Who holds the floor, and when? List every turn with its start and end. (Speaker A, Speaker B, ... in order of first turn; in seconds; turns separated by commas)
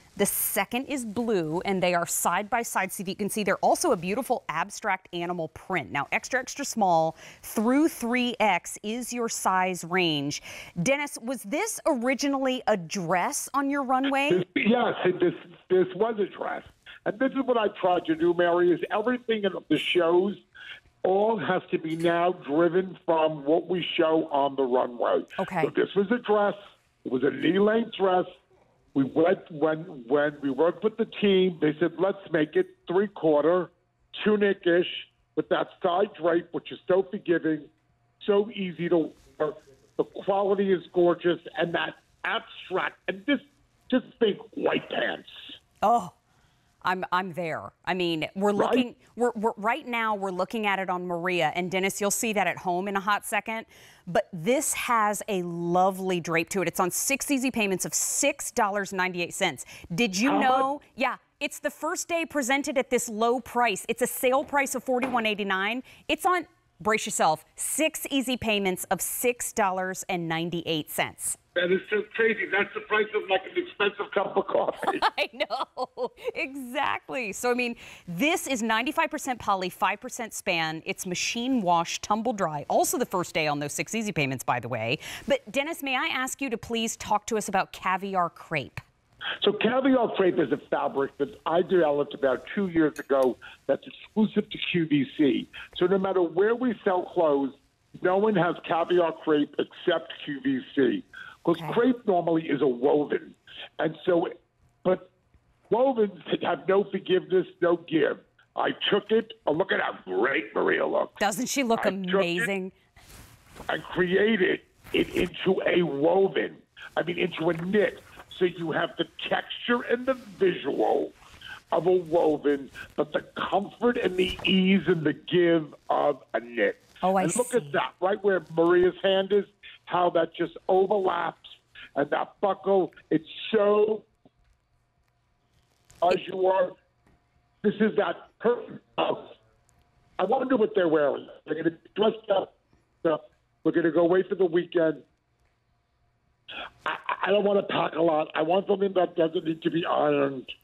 Speaker A: 0.2-14.4, Speaker B: 14.3-20.4, Speaker B: 21.0-28.3, Speaker A: 25.4-25.7, Speaker B: 28.9-37.7, Speaker B: 38.2-45.4, Speaker A: 45.8-46.1, Speaker A: 46.8-71.4, Speaker B: 48.5-48.9, Speaker B: 60.2-60.7, Speaker B: 71.6-75.0, Speaker A: 74.8-88.8, Speaker B: 89.4-104.3, Speaker B: 105.7-111.2, Speaker A: 111.2-112.7, Speaker B: 111.8-112.5, Speaker B: 113.7-121.2, Speaker B: 121.7-134.1, Speaker A: 127.0-127.8, Speaker B: 136.0-136.8, Speaker B: 137.6-139.3, Speaker B: 140.2-145.0, Speaker B: 146.8-150.5